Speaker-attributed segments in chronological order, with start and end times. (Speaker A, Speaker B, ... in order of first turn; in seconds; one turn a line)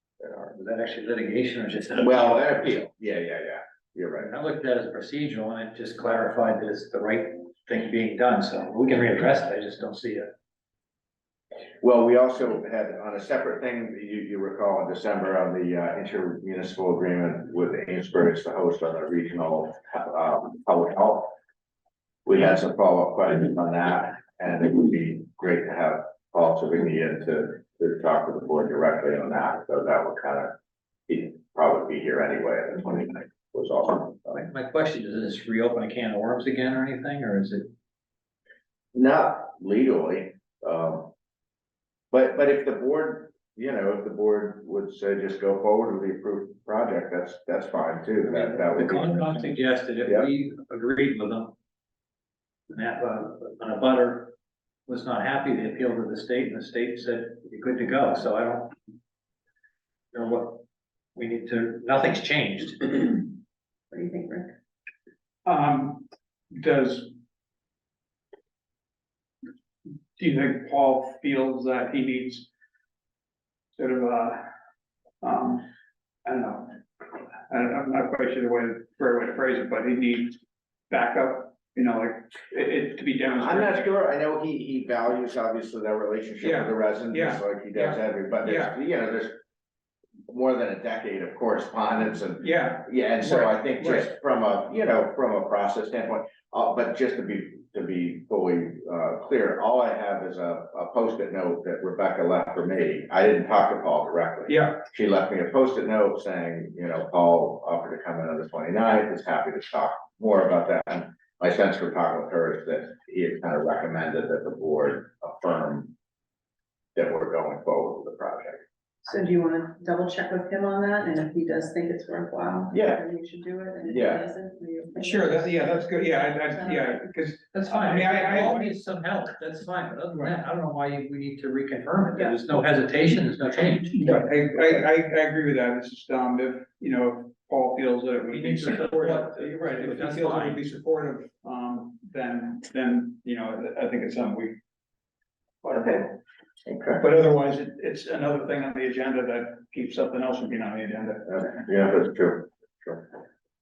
Speaker A: 0.2-0.5
Speaker B: 0.5-2.5
Speaker A: 2.0-4.3
Speaker B: 4.2-10.3
Speaker A: 11.8-21.3
Speaker A: 22.3-30.6
Speaker A: 31.1-34.4
Speaker B: 34.3-37.7
Speaker A: 38.9-41.1
Speaker A: 42.1-49.5
Speaker B: 48.2-51.5
Speaker B: 52.7-54.3
Speaker B: 54.9-58.7
Speaker B: 60.1-60.6
Speaker B: 61.1-63.3
Speaker C: 63.9-64.5
Speaker D: 65.5-67.1
Speaker D: 70.2-72.5
Speaker D: 73.8-74.4
Speaker D: 75.2-75.7
Speaker D: 76.2-76.8
Speaker D: 77.5-80.4
Speaker D: 80.9-83.9
Speaker A: 83.4-89.4
Speaker D: 86.4-88.8
Speaker A: 90.3-115.9
Speaker D: 92.4-94.0
Speaker D: 104.5-104.8
Speaker A: 117.0-118.6
Speaker C: 119.0-125.7
Speaker A: 122.7-123.0
Speaker A: 123.8-124.3
Speaker D: 125.0-128.7
Speaker C: 126.2-127.0
Speaker B: 127.5-134.1
Speaker D: 134.0-144.6
Speaker B: 138.3-140.6
Speaker D: 145.6-145.9
Speaker A: 145.7-146.1
Speaker A: 146.7-147.0
Speaker D: 147.0-151.5
Speaker A: 151.3-153.1